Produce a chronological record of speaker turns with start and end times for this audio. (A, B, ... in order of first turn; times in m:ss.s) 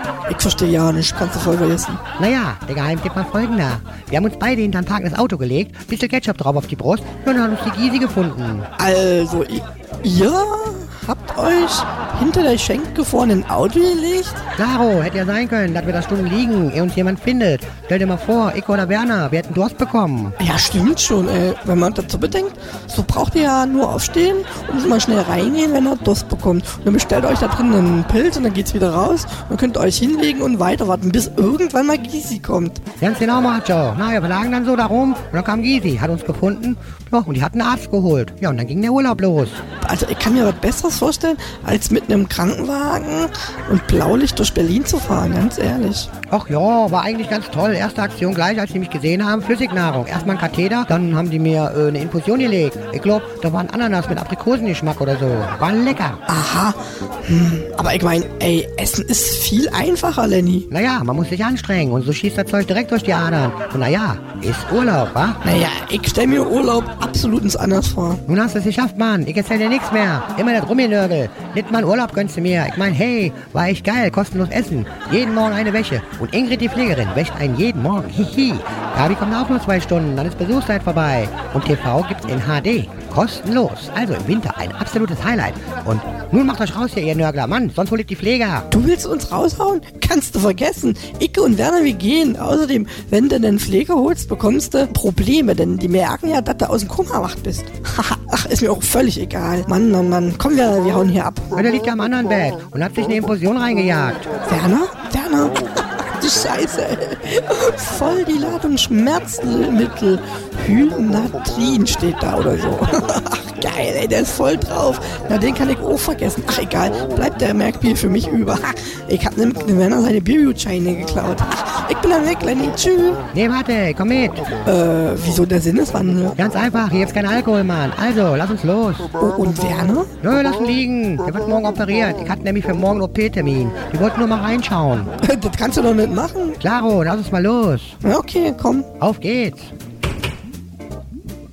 0:00.3-0:02.0 A
0:02.2-0:08.7 B
0:08.8-0:14.4 A
0:14.6-0:20.4 B
0:20.4-0:32.8 A
0:33.0-0:39.6 B
0:39.8-0:46.1 A
0:46.3-0:56.2 B
0:56.3-1:00.7 A
1:00.7-1:05.4 B
1:05.4-1:08.2 A
1:08.3-1:28.7 B
1:28.7-1:41.5 A
1:41.6-1:44.3 B
1:44.4-2:03.2 A
2:03.3-2:04.5 B
2:04.6-2:06.4 A
2:06.4-2:09.1 B
2:09.2-2:10.1 A
2:10.2-2:15.1 B
2:15.2-2:16.6 A
2:16.6-2:18.0 B
2:18.0-2:18.9 A
2:19.0-2:19.7 B